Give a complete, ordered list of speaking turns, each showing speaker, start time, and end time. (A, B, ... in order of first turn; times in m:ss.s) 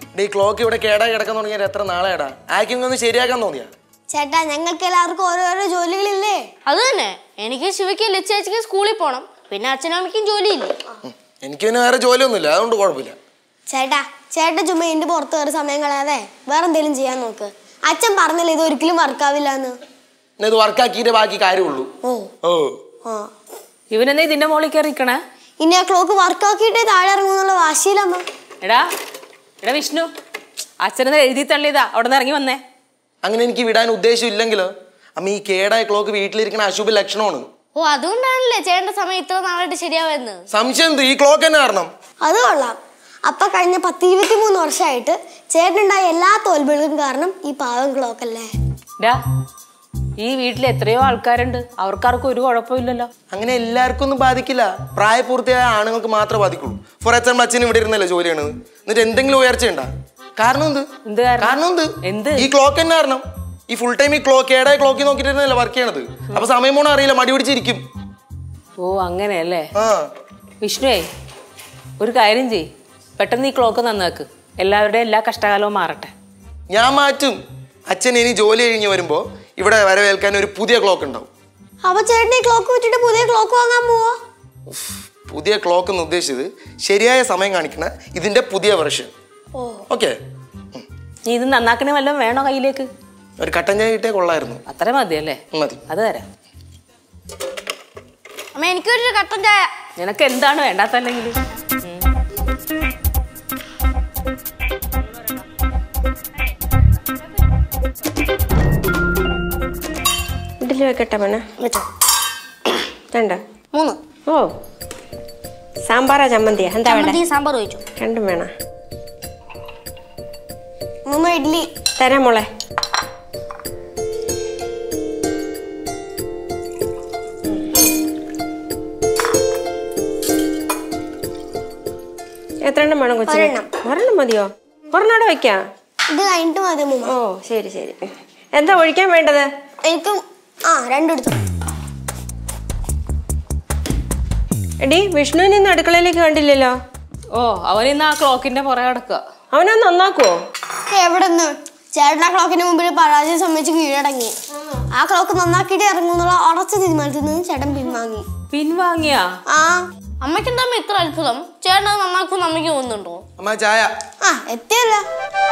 0:00.1-0:03.7 A
0:04.1-0:06.4 B
0:06.6-0:10.8 C
0:11.1-0:13.2 A
0:13.7-0:19.8 B
0:20.4-0:21.9 A
0:22.0-0:22.3 B
0:22.4-0:22.8 A
0:23.9-0:25.2 D
0:25.6-0:28.2 B
0:28.6-0:28.9 D
0:29.6-0:30.1 D
0:30.8-0:32.6 D
0:33.2-0:37.5 A
0:37.8-0:40.4 C
0:40.5-0:41.9 A
0:42.2-0:48.5 B
0:50.2-0:53.1 D
0:53.3-1:00.9 A
1:01.0-1:02.5 D
1:01.4-1:07.8 A
1:08.8-1:09.7 D
1:09.7-1:10.1 A
1:10.6-1:11.0 D
1:12.0-1:12.7 D
1:13.2-1:16.1 D
1:16.7-1:17.4 A
1:17.9-1:21.3 A
1:21.8-1:24.2 B
1:24.7-1:29.1 A
1:29.6-1:29.8 B
1:29.9-1:30.1 A
1:31.3-1:32.9 D
1:33.4-1:34.6 A
1:34.7-1:36.2 D
1:35.5-1:35.8 A
1:38.5-1:39.6 C
1:40.0-1:42.0 D
1:50.6-1:51.4 E
1:53.1-1:53.4 E
1:53.7-1:54.0 C
1:55.9-1:57.2 E
1:56.8-1:57.8 C
1:58.0-1:58.5 E
2:01.1-2:01.7 B
2:02.0-2:02.5 E
2:12.6-2:15.6 E
2:13.2-2:13.7 B
2:16.1-2:17.1 B
2:17.0-2:19.5 E
2:19.8-2:21.4 B
2:24.8-2:26.7 E
2:27.3-2:29.2 D
2:29.5-2:30.4 E
2:30.9-2:34.3 B
2:34.9-2:38.2 B
2:38.5-2:39.2 D
2:39.5-2:39.8 B
2:40.2-2:43.2 C
2:43.4-2:43.9 A
2:44.2-2:45.0 B